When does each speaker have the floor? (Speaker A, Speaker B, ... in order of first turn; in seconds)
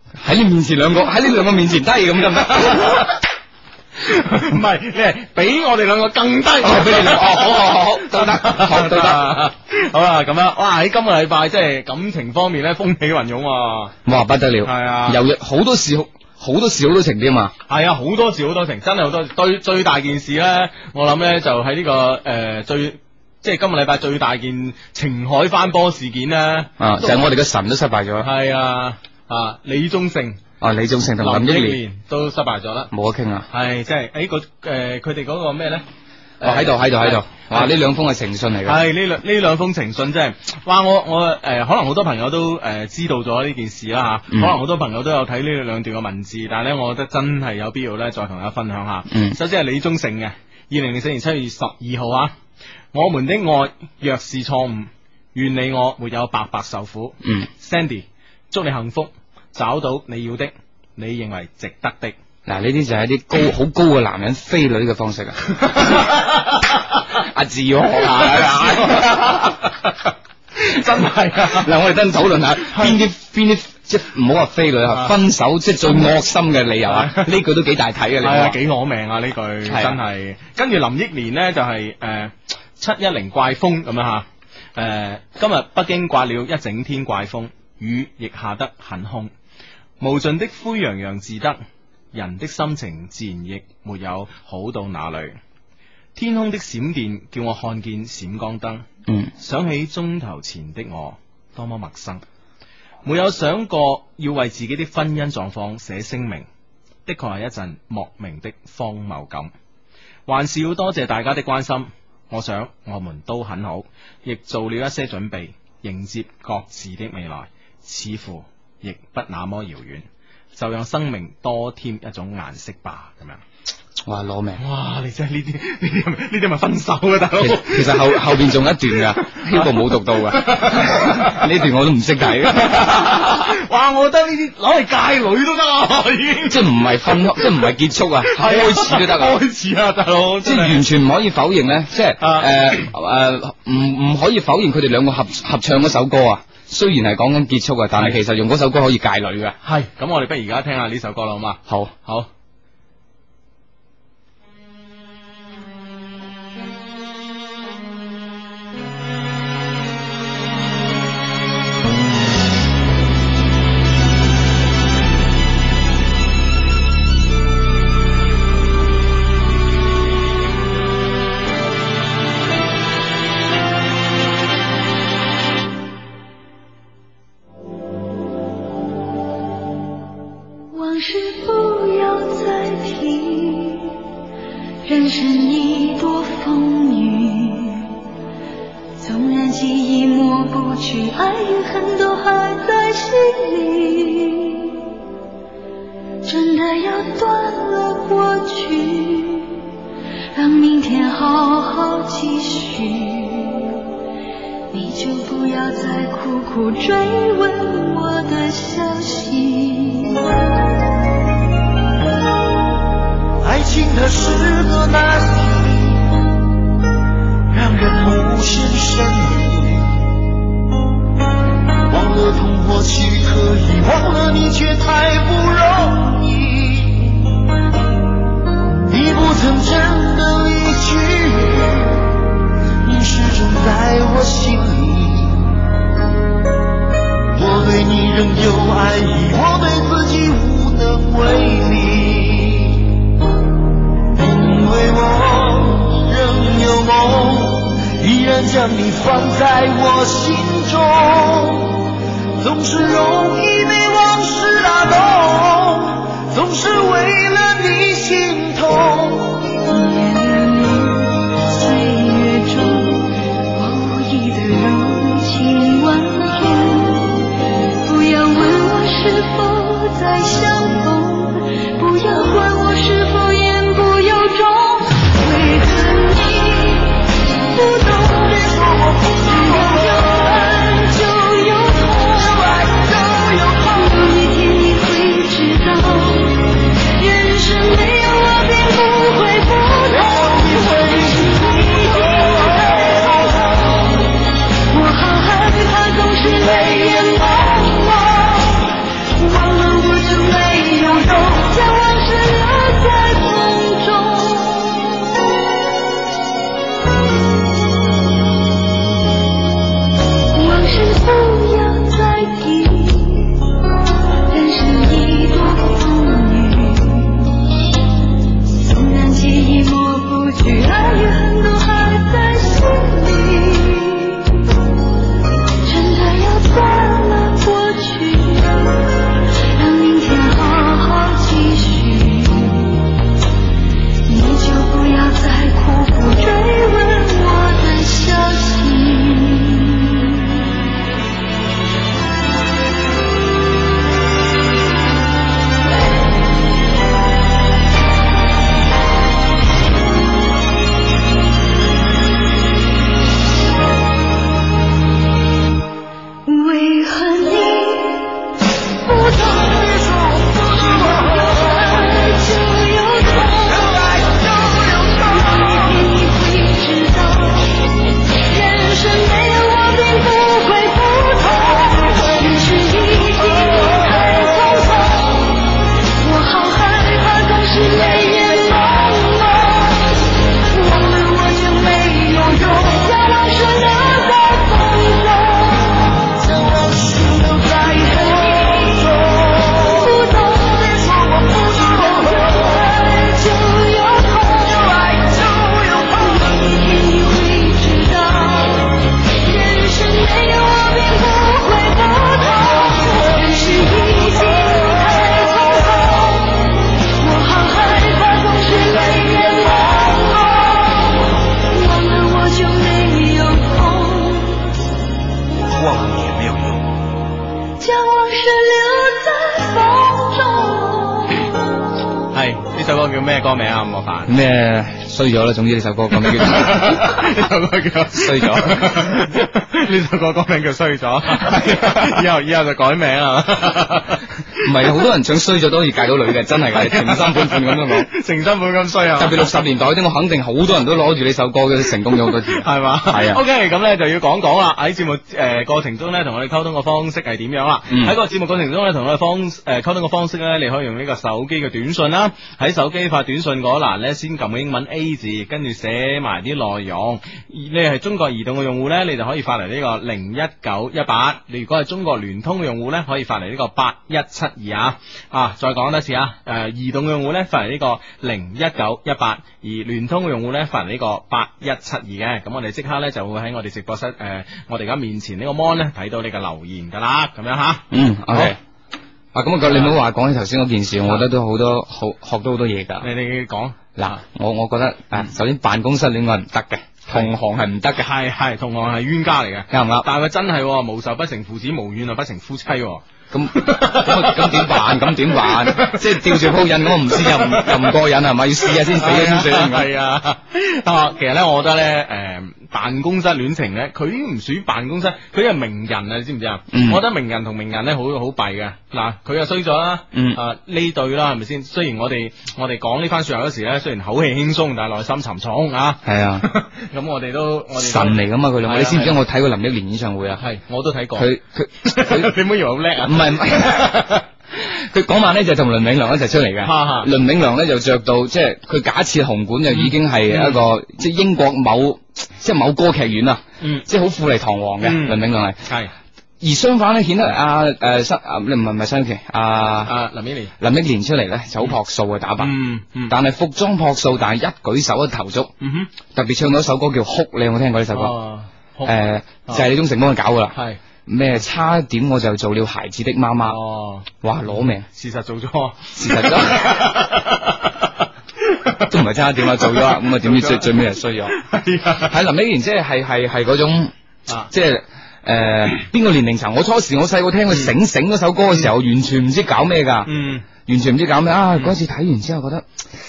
Speaker A: 0.2-3.1, 6.6-9.3, 14.1-17.5, 26.8-28.3, 30.6-31.8, 32.9-33.5, 36.4-38.8, 44.3-44.6, 49.1-49.4, 62.5-66.1, 67.2-69.6, 71.4-78.6, 79.7-80.0, 124.0-124.6, 127.4-133.6, 136.5-139.4, 140.4-149.6, 151.7-151.9, 424.1-427.1, 427.9-429.1, 431.1-432.0, 434.4-437.9, 439.0-443.2, 447.7-447.9, 477.7-478.4, 479.1-482.9, 483.8-487.9, 489.5-489.9, 493.1-499.7, 506.5-506.8, 509.9-510.2, 515.8-516.3, 517.5-520.2, 521.0-522.1, 522.9-523.8, 524.3-535.4, 536.2-539.7, 540.4-542.4, 542.9-545.3, 545.9-547.9, 548.7-553.4, 554.0-554.7, 555.8-556.7, 558.7-561.2, 561.8-563.7, 564.3-569.9, 570.4-572.5
Speaker B: 2.5-3.1, 4.0-13.9, 14.7-15.2, 17.7-27.3, 28.2-30.4, 31.2-32.9, 33.5-35.8, 36.4-37.8, 38.6-52.3, 52.9-62.2, 65.7-67.0, 67.9-71.7, 72.7-73.1, 74.9-75.2, 76.8-77.4, 78.2-89.3, 90.0-91.6, 92.1-95.4, 96.2-98.8, 99.4-102.2, 103.0-106.5, 107.1-109.5, 110.3-123.4, 124.6-131.4, 132.4-137.7, 138.3-140.8, 142.2-142.9, 149.6-152.3, 422.1-424.1, 425.9-434.2, 436.5-439.3, 441.9-478.3, 479.4-479.8, 482.8-484.0, 487.8-497.8, 498.6-519.0, 520.2-524.0, 526.4-526.9, 529.5-530.4, 533.4-533.7, 534.6-535.7, 539.7-540.3, 542.2-543.0, 545.4-545.7, 547.7-549.5, 550.3-550.6, 553.3-561.9, 567.3-567.6, 569.9-570.3
Speaker C: 180.7-184.0, 184.8-188.0, 189.0-194.9, 196.2-199.7, 200.3-203.8, 204.7-210.3, 259.6-267.3, 267.8-278.6, 279.2-294.1, 294.7-305.5, 310.3-313.6, 314.3-317.4, 318.5-324.6, 325.6-332.9, 334.1-340.4, 356.3-358.3, 358.8-359.8, 360.5-386.0, 387.8-414.6, 417.6-421.3
Speaker D: 213.4-216.1, 217.5-220.0, 221.9-227.2, 228.9-232.1, 232.8-235.6, 237.3-242.9, 244.1-251.8, 252.4-259.5, 278.1-280.1, 290.0-293.4, 359.4-361.3, 363.6-365.2, 386.2-389.8, 391.1-392.1, 415.5-416.8